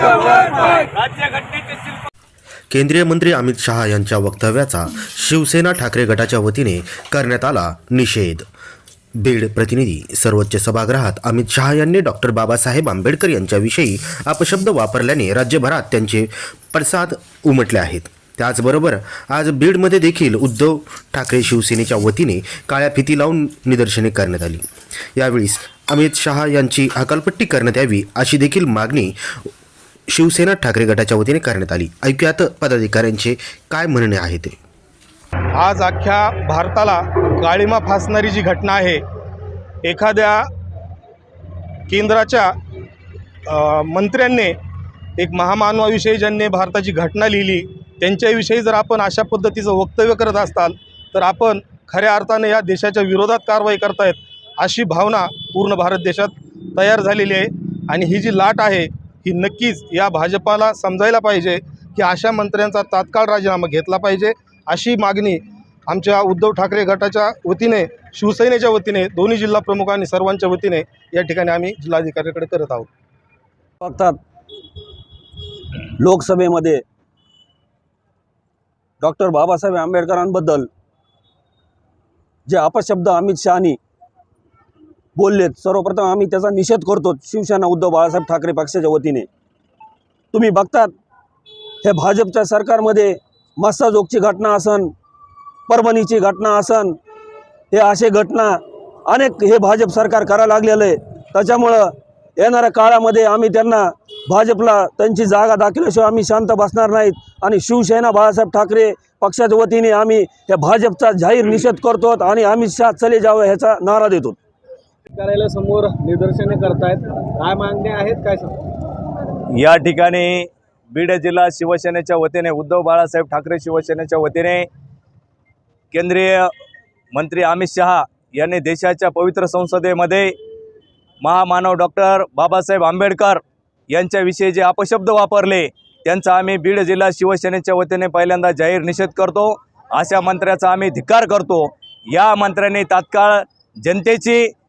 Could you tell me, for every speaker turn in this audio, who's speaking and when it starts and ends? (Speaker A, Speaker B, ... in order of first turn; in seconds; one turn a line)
Speaker A: 0.2-2.0
Speaker B: 2.7-8.4
Speaker B: 9.2-29.2
Speaker B: 30.1-34.6
Speaker C: 35.5-39.0
Speaker C: 39.8-40.5
Speaker C: 41.9-42.5
Speaker C: 43.5-44.5
Speaker C: 45.2-72.9
Speaker D: 73.8-74.2
Speaker D: 76.0-76.8
Speaker D: 79.0-80.7
Speaker D: 82.5-83.8
Speaker D: 85.2-89.3
Speaker D: 90.3-90.9
Speaker D: 91.8-94.9
Speaker D: 95.7-97.0
Speaker D: 97.7-114.4
Speaker E: 115.1-118.6
Speaker A: 119.5-124.7
Speaker A: 125.9-126.5
Speaker A: 127.1-130.3
Speaker A: 131.2-144.5